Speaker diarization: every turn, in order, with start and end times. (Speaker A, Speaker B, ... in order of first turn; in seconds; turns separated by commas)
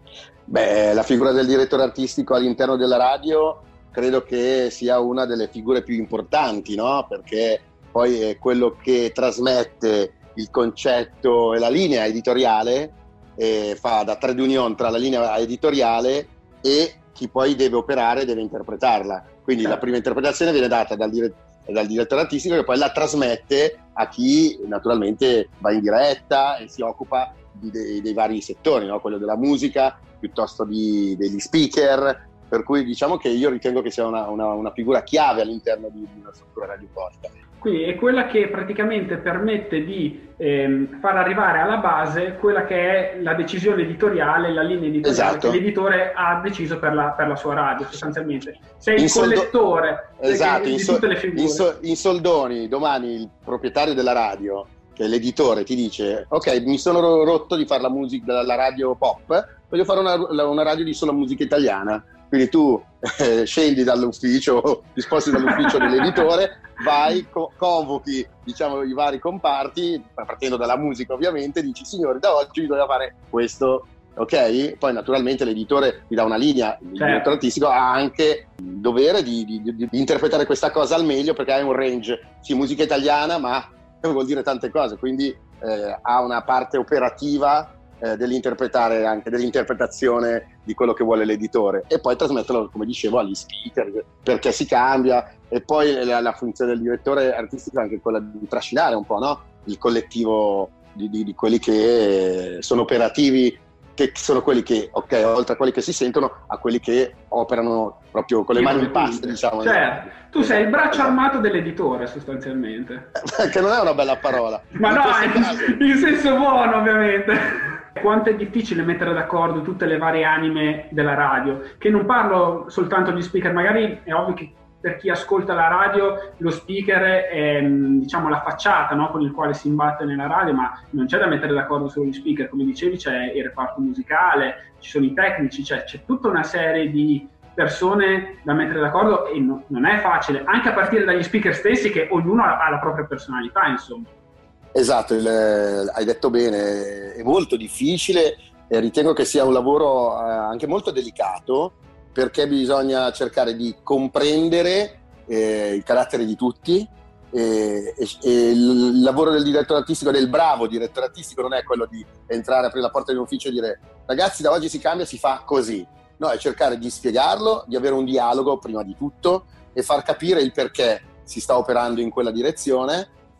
Speaker A: 0.5-37.4, Speaker B: 37.6-51.7, Speaker A: 45.0-45.6, Speaker A: 49.0-49.5, Speaker A: 50.2-111.2, Speaker B: 65.3-66.3, Speaker B: 77.0-77.4, Speaker B: 108.5-113.1, Speaker A: 113.2-115.8, Speaker B: 114.7-144.1, Speaker A: 144.7-173.1